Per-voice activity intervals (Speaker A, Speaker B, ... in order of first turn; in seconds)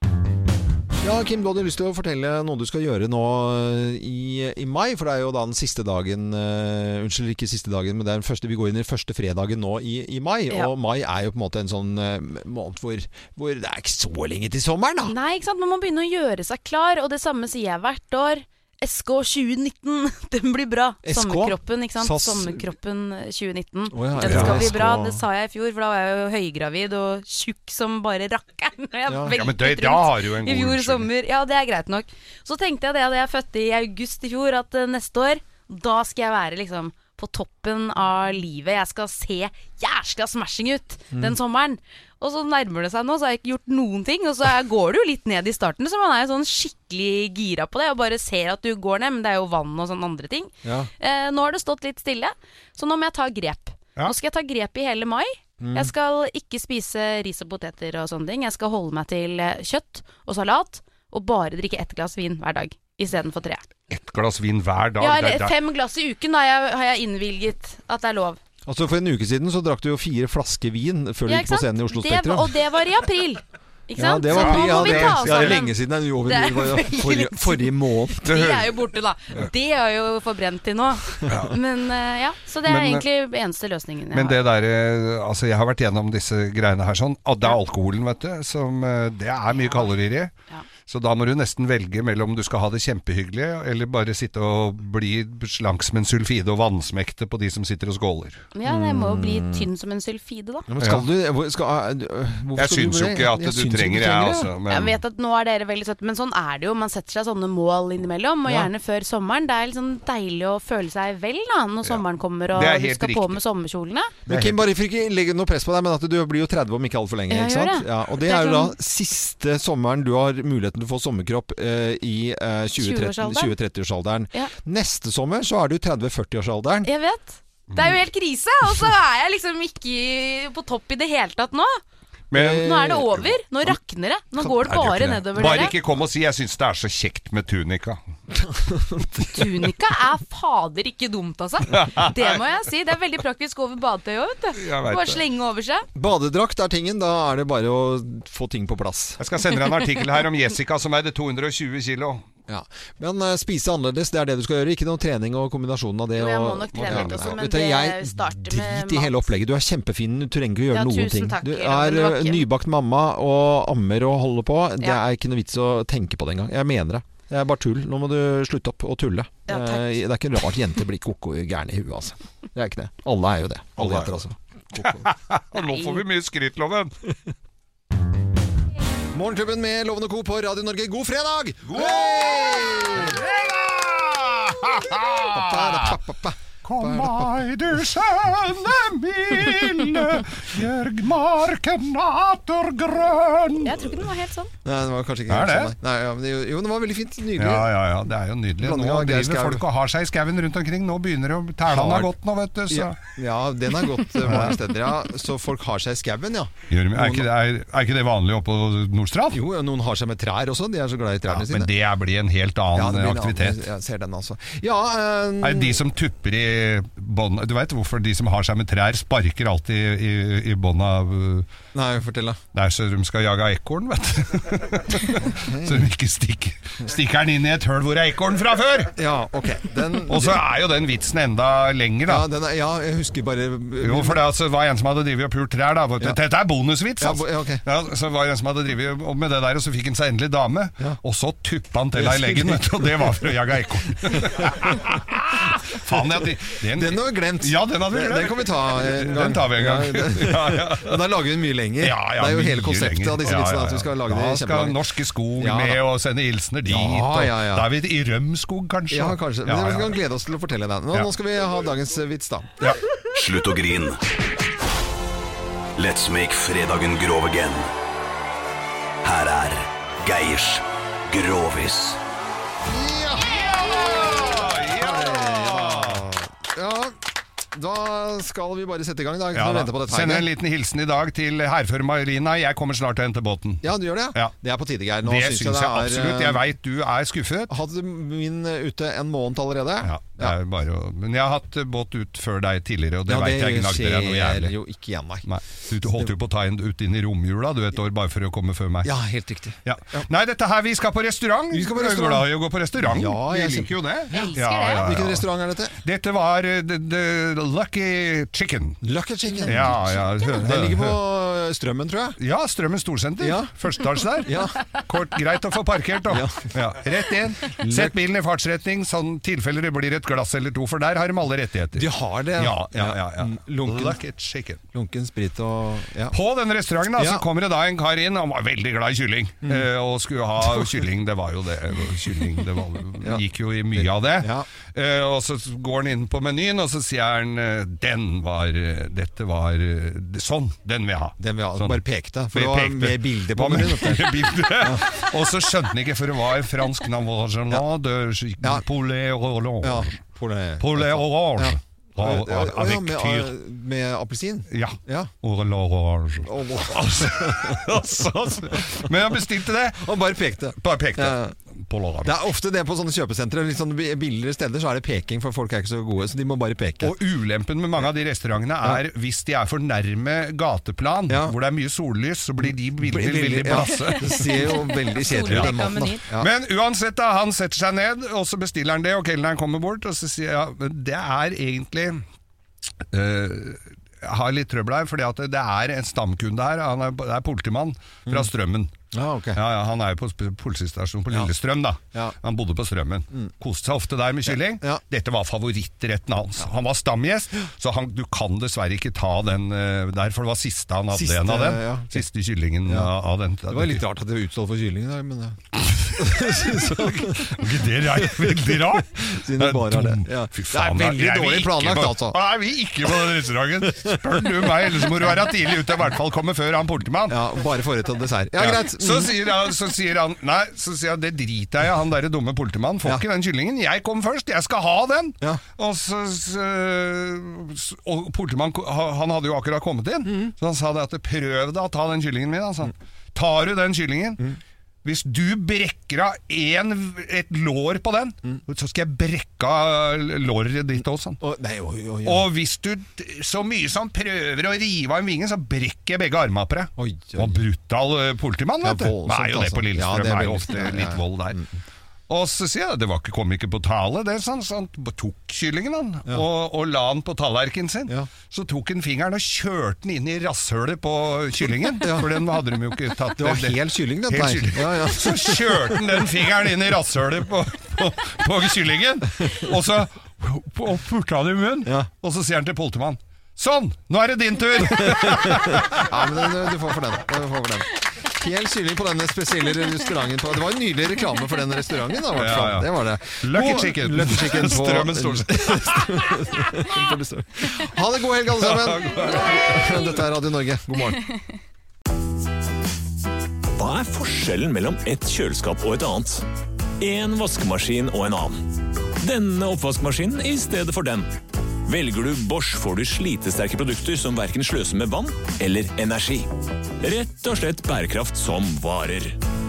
Speaker A: 1.0-15.2, 21.0-22.6, 23.9-25.2, 29.1-29.3, 50.6-50.9, 55.6-55.9, 68.7-72.6, 74.0-78.4, 98.7-99.7, 100.7-104.5, 108.5-108.7, 114.3-126.9, 132.3-133.8, 134.4-135.7, 138.4-139.1, 145.9-149.2, 152.5-175.1, 179.1-183.2, 185.3-187.3, 194.7-197.7, 198.6-199.6, 201.7-202.1, 202.7-207.3, 209.3-211.7, 212.8-215.8, 221.7-222.4, 225.3-225.9, 228.9-230.4, 232.1-234.2, 237.0-237.6, 241.9-243.1, 244.1-244.5, 245.9-246.2, 246.7-255.8, 256.6-257.7, 258.9-262.7, 272.7-277.0, 277.5-280.3, 283.6-286.4, 287.5-290.4, 293.1-295.3, 298.8-300.1, 301.5-303.7, 304.8-305.8, 308.8-312.2, 313.2-313.5, 314.2-314.6, 316.1-316.5, 317.6-317.9, 321.7-324.0, 324.7-326.2, 327.0-327.2, 333.8-334.5, 341.2-344.8, 348.4-348.7, 349.6-355.1, 356.3-357.8, 359.8-361.4, 362.0-366.9, 371.1-371.4, 372.4-376.3, 388.9-389.4, 394.3-394.8, 400.9-402.0, 402.7-402.9, 403.5-407.5, 408.0-412.2, 413.8-414.7, 417.1-419.1, 430.1-430.3, 441.2-442.3, 446.8-447.4, 448.6-451.6, 461.8-462.1, 463.2-466.0, 474.7-491.0
Speaker B: 15.1-63.6, 65.0-68.4, 71.3-84.4, 98.5-100.7, 104.7-114.1, 117.3-118.7, 122.8-123.5, 126.8-131.8, 132.4-135.8, 139.3-145.8, 156.2-159.1, 160.7-162.4, 169.5-169.9, 175.6-175.9, 193.6-194.5, 304.1-304.9, 373.9-376.0
Speaker C: 24.2-24.6, 29.4-31.1, 63.9-65.5, 74.3-75.6, 78.3-78.7, 81.3-81.6, 82.7-83.0, 84.1-90.3, 90.9-98.5, 100.8-101.1, 102.6-105.0, 111.8-113.4, 114.3-114.7, 132.3-132.7, 135.4-138.0, 141.7-142.4, 144.6-145.2, 149.2-152.2, 156.7-157.4, 173.8-174.2, 174.8-176.9, 181.7-186.0, 186.6-194.0, 195.3-195.7, 197.4-203.0, 204.2-204.6, 206.7-209.4, 211.3-213.6, 215.4-221.5, 222.5-228.9, 230.1-232.3, 233.8-251.0, 251.8-260.0, 273.2-276.1, 279.3-284.3, 285.0-287.5, 289.8-294.5, 295.3-298.9, 299.6-305.3, 305.8-308.8, 309.4-311.0, 312.2-324.6, 326.1-350.0, 350.6-353.3, 354.5-360.0, 360.6-362.1, 366.8-374.4, 376.2-382.0, 382.9-388.7, 389.4-403.8, 405.7-417.2, 418.4-434.2, 434.8-441.2, 442.0-451.4, 452.1-475.9, 482.1-486.5, 488.4-489.8
Speaker D: 263.1-264.0, 265.8-267.7, 269.0-272.0
Speaker E: 493.6-496.2, 496.8-498.4, 499.0-501.1, 501.7-506.3, 506.8-509.1